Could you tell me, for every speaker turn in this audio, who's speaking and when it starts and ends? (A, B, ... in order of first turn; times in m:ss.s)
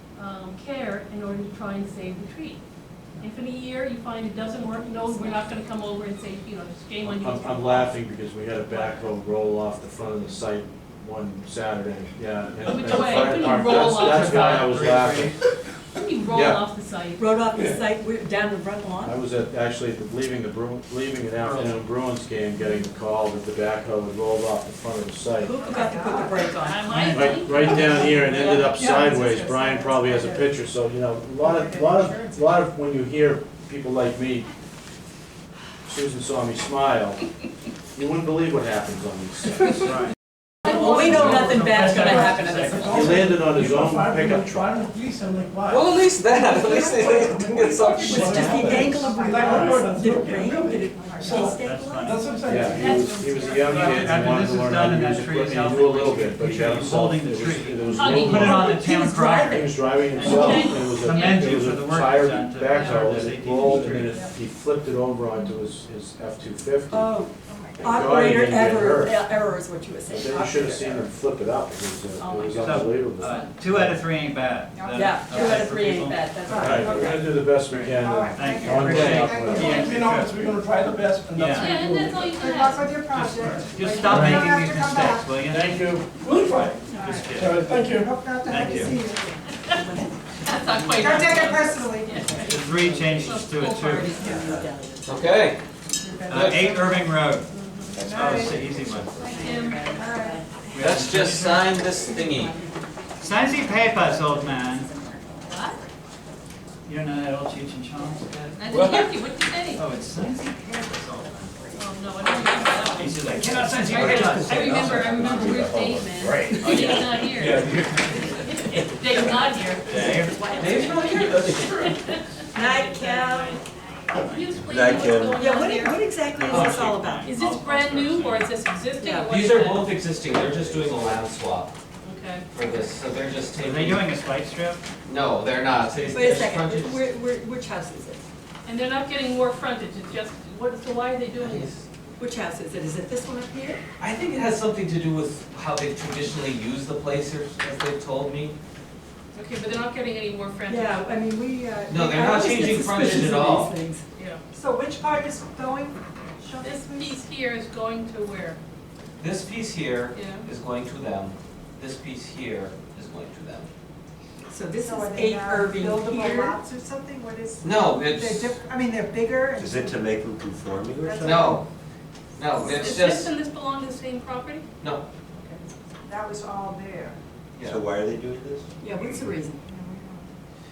0:00.2-0:02.6 A
0:03.2-0:08.0 A
0:04.6-0:05.4 B
0:07.0-0:15.4 C
0:08.7-0:09.1 A
0:12.7-0:14.7 A
0:13.1-0:15.4 D
0:16.0-0:17.3 A
0:16.3-0:16.6 C
0:17.2-0:19.2 B
0:19.0-0:25.7 C
0:25.4-0:28.8 B
0:25.6-0:26.5 E
0:26.5-0:28.1 A
0:26.9-0:27.4 D
0:27.1-0:34.5 C
0:27.7-0:30.6 E
0:31.4-0:32.6 E
0:35.9-0:37.3 C
0:37.9-0:39.8 C
0:39.7-0:40.1 D
0:40.6-0:43.2 B
0:40.6-0:43.3 D
0:41.1-0:41.5 C
0:42.0-0:53.3 F
0:42.9-0:44.7 C
0:45.7-0:48.6 G
0:46.8-0:49.9 E
0:48.0-0:52.2 B
0:51.0-0:51.6 E
0:51.5-0:52.2 D
0:52.5-1:07.1 C
0:52.7-0:54.5 A
0:53.6-1:04.2 D
0:57.9-0:58.8 A
0:58.4-0:59.6 B
1:00.2-1:01.5 A
1:06.9-1:11.1 B
1:07.5-1:07.8 E
1:07.8-1:09.3 C
1:10.1-1:14.0 C
1:12.2-1:13.5 B
1:12.6-1:16.9 D
1:14.8-1:15.6 E
1:14.9-1:17.2 B
1:16.5-1:20.1 E
1:16.6-1:19.9 C
1:16.9-1:17.2 F
1:18.3-1:20.4 D
1:18.8-1:19.2 G
1:19.5-1:22.4 F
1:21.4-1:21.8 D
1:21.5-1:23.0 A
1:22.2-1:25.4 E
1:23.1-1:25.8 D
1:24.0-1:24.5 C
1:25.5-1:26.1 C
1:26.2-1:28.2 F
1:26.9-1:29.3 E
1:26.9-1:27.8 D
1:28.4-1:29.0 D
1:29.5-1:29.9 A
1:29.7-1:31.4 B
1:30.4-1:34.3 A
1:31.0-1:32.6 E
1:32.4-1:34.3 D
1:33.4-1:35.2 B
1:34.2-1:34.6 E
1:35.0-1:35.6 G
1:36.0-1:37.1 E
1:36.3-1:37.5 D
1:36.3-1:36.7 G
1:37.5-1:38.1 A
1:37.9-1:39.3 E
1:38.0-1:39.3 D
1:39.1-1:39.9 A
1:39.2-1:40.8 B
1:39.9-1:40.5 E
1:40.7-1:41.7 D
1:40.8-1:42.6 G
1:41.9-1:45.8 B
1:43.2-1:44.9 D
1:45.4-1:45.9 A
1:46.9-1:48.5 D
1:48.5-1:49.9 A
1:49.8-1:51.7 D
1:51.7-1:53.2 A
1:52.9-1:55.3 D
1:53.8-2:00.0 A
1:54.0-1:56.6 H
1:56.6-1:58.3 D
1:59.8-2:00.6 D
1:59.8-2:01.3 B
2:00.6-2:02.1 G
2:00.6-2:06.1 A
2:02.5-2:03.6 B
2:04.2-2:05.1 D
2:04.7-2:05.4 H
2:05.4-2:07.3 B
2:06.2-2:08.6 D
2:06.5-2:06.9 G
2:07.2-2:10.0 A
2:09.0-2:09.4 B
2:09.3-2:11.8 G
2:12.0-2:12.5 A
2:12.5-2:14.0 G
2:13.6-2:14.8 D
2:15.1-2:17.0 G
2:16.1-2:18.2 B
2:18.6-2:21.7 A
2:21.4-2:21.8 G
2:22.2-2:23.8 B
2:24.0-2:28.5 G
2:29.3-2:31.0 A
2:30.7-2:34.0 B
2:31.9-2:33.7 G
2:34.2-2:34.4 A
2:34.5-2:37.2 E
2:36.6-2:38.6 A
2:39.2-2:43.7 G
2:40.1-2:40.5 A
2:44.5-2:46.6 B
2:44.8-2:50.2 E
2:47.6-2:48.6 G
2:49.6-2:51.4 H
2:51.0-2:51.6 E
2:51.2-2:51.6 G
2:52.4-2:53.3 G
2:52.5-2:53.0 E
2:52.6-2:54.7 A
2:55.4-2:57.2 E
2:57.6-2:57.8 G
2:57.6-2:58.7 H
2:58.8-2:59.6 B
2:59.0-3:00.3 E